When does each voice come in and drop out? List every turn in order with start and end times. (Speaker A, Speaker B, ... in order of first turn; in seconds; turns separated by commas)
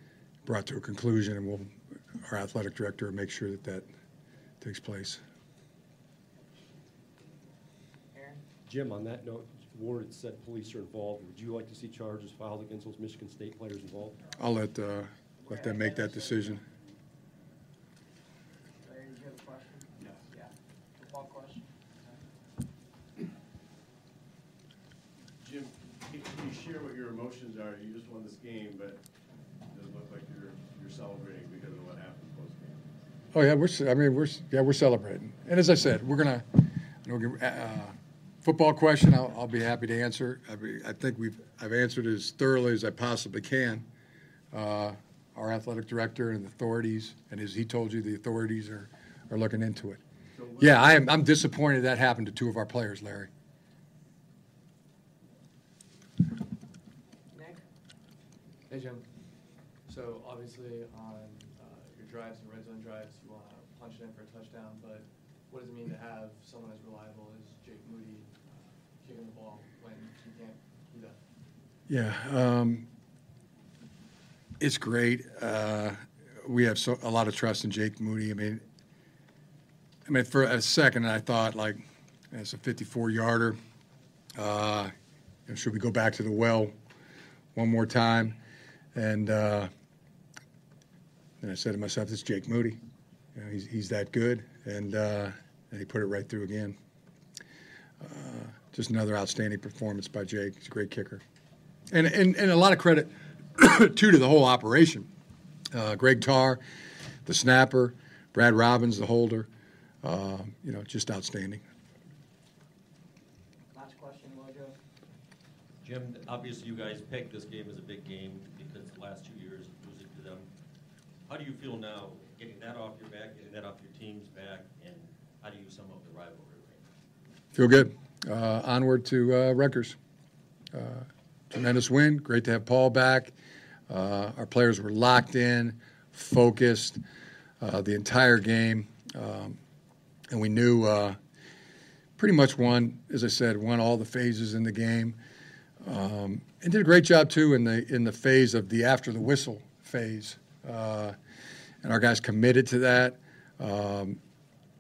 Speaker A: 0.5-1.7, Speaker A: 2.2-3.9, Speaker A: 4.6-5.2, Speaker B: 8.1-8.4, Speaker C: 8.7-14.1, Speaker A: 14.4-16.6, Speaker B: 15.4-16.5, Speaker B: 18.8-21.7, Speaker D: 25.4-29.0, Speaker D: 29.7-32.9, Speaker A: 33.3-43.9, Speaker A: 44.5-50.0, Speaker E: 50.4-50.9, Speaker A: 50.6-53.3, Speaker B: 57.3-57.6, Speaker E: 58.7-59.1, Speaker E: 59.9-71.2, Speaker A: 71.9-72.9, Speaker A: 74.6-78.6, Speaker A: 80.1-83.6, Speaker A: 84.4-84.9, Speaker A: 85.5-86.7, Speaker A: 87.5-88.4, Speaker A: 89.0-89.7, Speaker A: 91.4-92.8, Speaker A: 93.3-96.8, Speaker A: 98.0-101.2, Speaker A: 101.9-105.1, Speaker A: 105.7-106.6, Speaker A: 107.3-109.5, Speaker A: 110.0-111.6, Speaker B: 113.7-114.8, Speaker F: 115.8-120.5, Speaker F: 121.3-126.8, Speaker A: 127.5-130.0, Speaker A: 130.7-133.3, Speaker A: 133.9-137.0, Speaker A: 137.6-139.6, Speaker A: 140.3-141.2, Speaker A: 142.2-145.2, Speaker A: 145.8-151.2, Speaker A: 151.8-154.2